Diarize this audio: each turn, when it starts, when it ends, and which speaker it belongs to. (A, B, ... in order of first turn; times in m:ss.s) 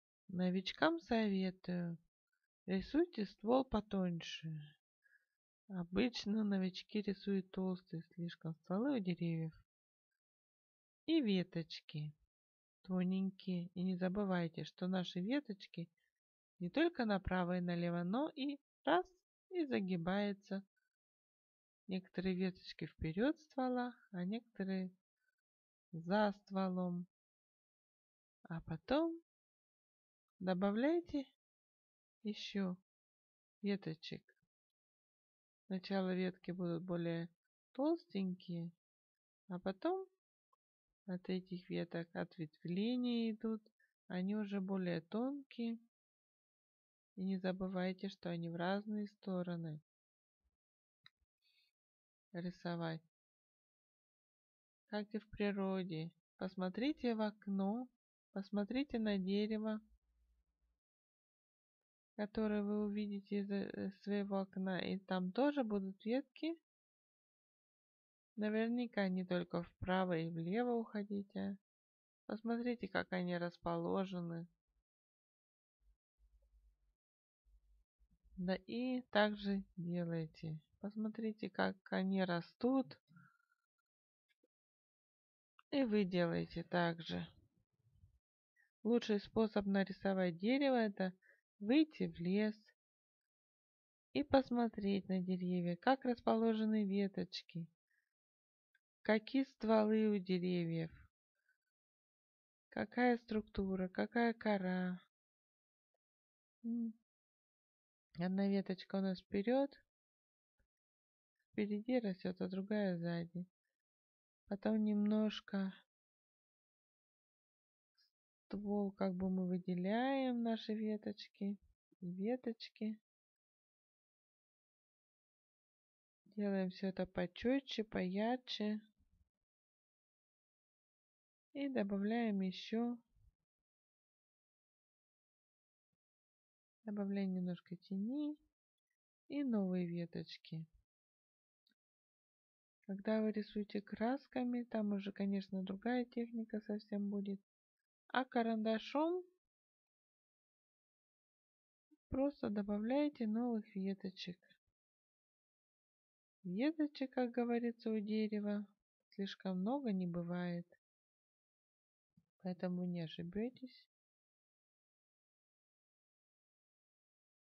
0:00.3-0:02.0 A
0:02.7-0:04.6 A
0:05.7-0:09.6 A
0:11.1-0:12.1 A
0:12.8-0:15.9 A
0:16.6-0:20.6 A
0:21.9-0:24.9 A
0:25.9-0:27.1 A
0:28.5-0:29.2 A
0:30.4-0:31.3 A
0:32.2-0:32.8 A
0:33.6-0:34.3 A
0:35.7-0:38.8 A
0:39.5-0:40.1 A
0:41.1-0:45.8 A
0:47.2-0:49.8 A
0:52.3-0:53.0 A
0:54.9-0:59.8 A
1:02.2-1:06.6 A
1:08.4-1:11.6 A
1:12.3-1:14.5 A
1:18.4-1:23.0 A
1:25.7-1:27.3 A
1:28.8-1:32.8 A
1:34.1-1:37.7 A
1:39.0-1:40.9 A
1:42.7-1:45.0 A
1:46.6-1:46.9 A
1:48.2-1:49.8 A
1:51.5-1:53.5 A
1:54.5-1:55.7 A
1:58.5-2:03.0 A
2:06.3-2:08.8 A
2:11.5-2:13.0 A
2:16.8-2:18.4 A
2:19.3-2:20.7 A
2:22.9-2:27.4 A
2:28.1-2:29.2 A
2:32.1-2:34.6 A
2:36.4-2:40.8 A
2:42.4-2:43.9 A